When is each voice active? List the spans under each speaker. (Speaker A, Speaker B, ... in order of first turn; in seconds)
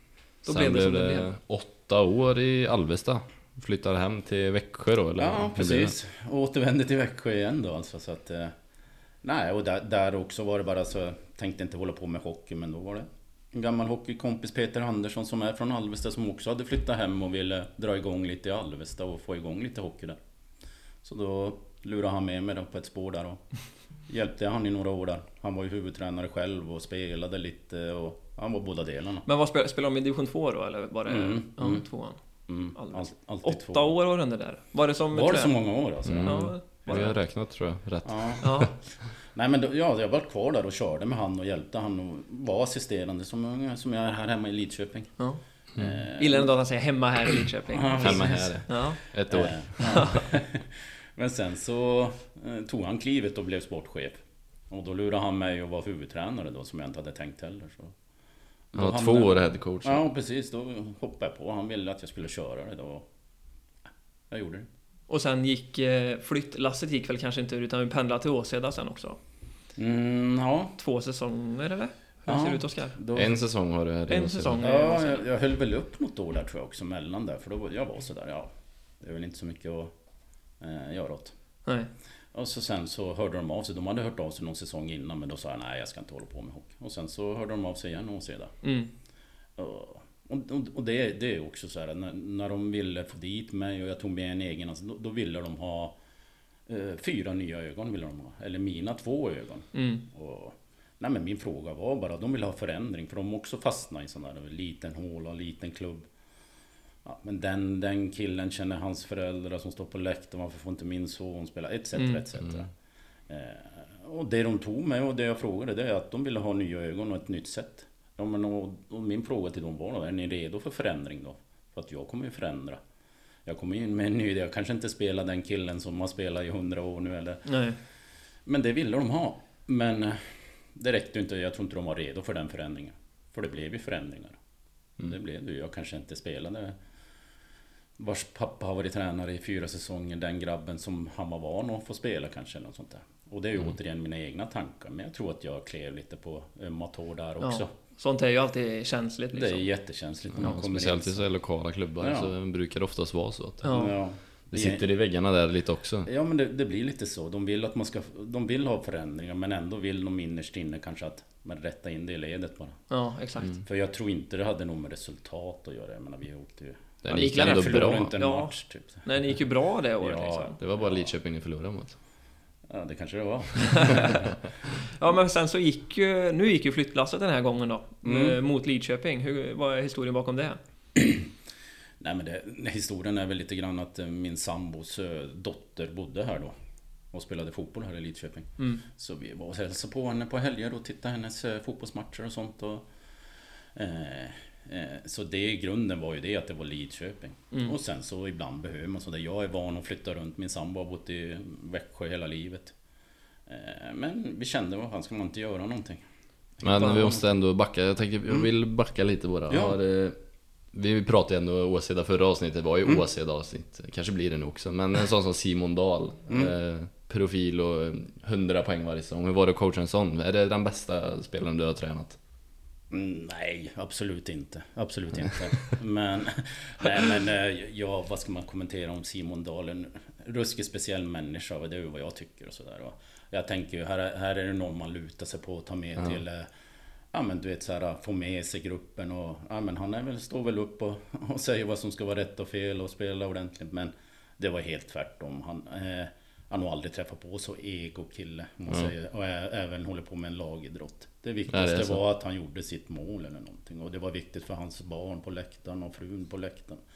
Speaker A: 0.5-1.3, 29.3-32.2, 32.8-35.5, 36.2-37.0, 38.4-38.7, 46.2-49.0, 49.8-50.2, 65.1-69.2, 70.8-73.0, 74.1-75.3, 88.6-88.9, 99.7-100.0, 127.5-127.8, 147.4-149.7, 153.7-153.9, 162.9-163.5, 167.1-168.5, 169.1-170.6, 173.6-174.2, 175.0-180.6
Speaker B: 0.5-6.0, 36.0-38.7, 48.0-50.2, 58.8-60.0, 73.1-74.6, 150.4-153.7, 154.5-156.1, 167.0-168.1, 170.6-172.0, 206.6-210.2, 210.7-222.2, 251.5-252.0
Speaker C: 5.2-8.5, 9.2-20.2, 21.0-23.4, 24.1-29.3, 31.1-31.8, 32.5-33.9, 35.1-37.1, 38.0-38.6, 39.4-45.1, 45.8-46.5, 47.7-48.7, 49.3-54.2, 54.7-57.9, 58.7-63.1, 64.3-64.7, 69.8-70.8, 72.3-73.4, 74.6-78.5, 79.0-79.9, 80.6-81.3, 82.3-88.5, 89.6-96.0, 96.7-106.1, 107.0-112.7, 113.3-122.8, 123.5-127.5, 128.5-134.4, 135.0-136.8, 138.0-147.7, 149.3-151.2, 152.0-152.3, 153.7-154.8, 156.1-162.8, 163.7-169.1, 170.0-171.1, 172.7-174.4, 178.1-178.4, 180.9-181.3, 182.0-186.5, 187.1-192.8, 193.8-202.7, 203.5-206.0, 206.6-207.2, 209.5-209.8, 222.9-236.5, 237.1-256.8